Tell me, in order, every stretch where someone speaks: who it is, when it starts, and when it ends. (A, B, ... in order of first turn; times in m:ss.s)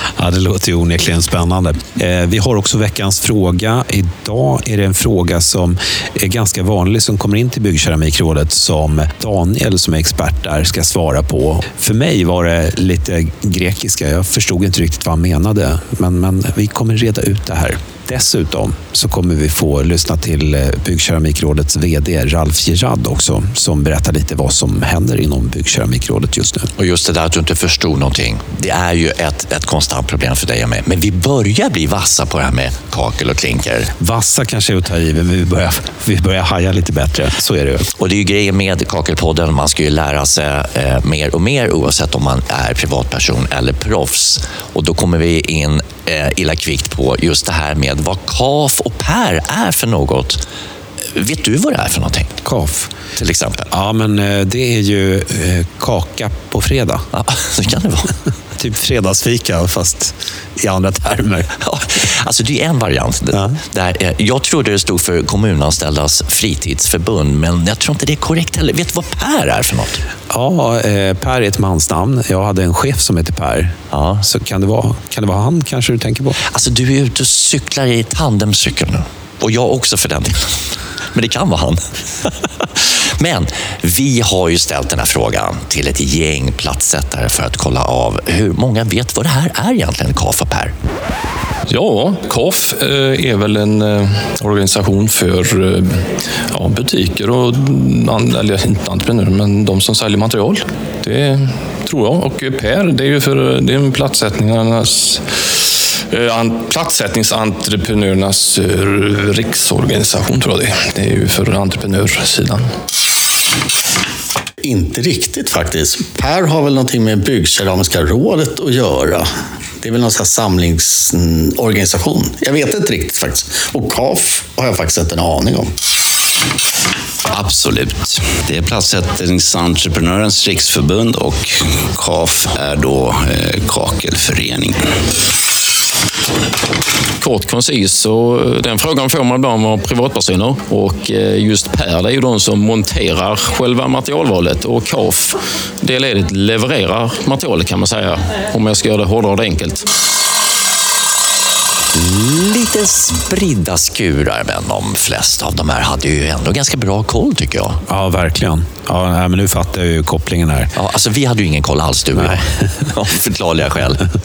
0:00.2-0:26.7 A
0:26.8-0:33.9 B
0:34.0-0:37.9 A
0:38.0-0:50.4 B
0:51.1-0:52.4 B
0:52.4-0:52.9 A
0:53.2-0:53.7 B
0:53.7-0:57.0 A
0:57.1-0:58.1 B
0:58.6-1:01.5 A
1:01.6-1:10.0 B
1:03.3-1:03.6 A
1:10.3-1:16.4 A
1:13.9-1:14.2 B
1:16.5-1:20.6 B
1:21.1-1:30.7 B
1:31.7-1:52.7 C
1:54.6-1:59.3 D
1:59.8-2:05.7 D
2:07.3-2:14.8 E
2:17.2-2:29.8 F
2:32.0-2:37.8 B
2:37.9-2:40.7 A
2:40.8-2:44.0 B
2:42.2-2:42.4 A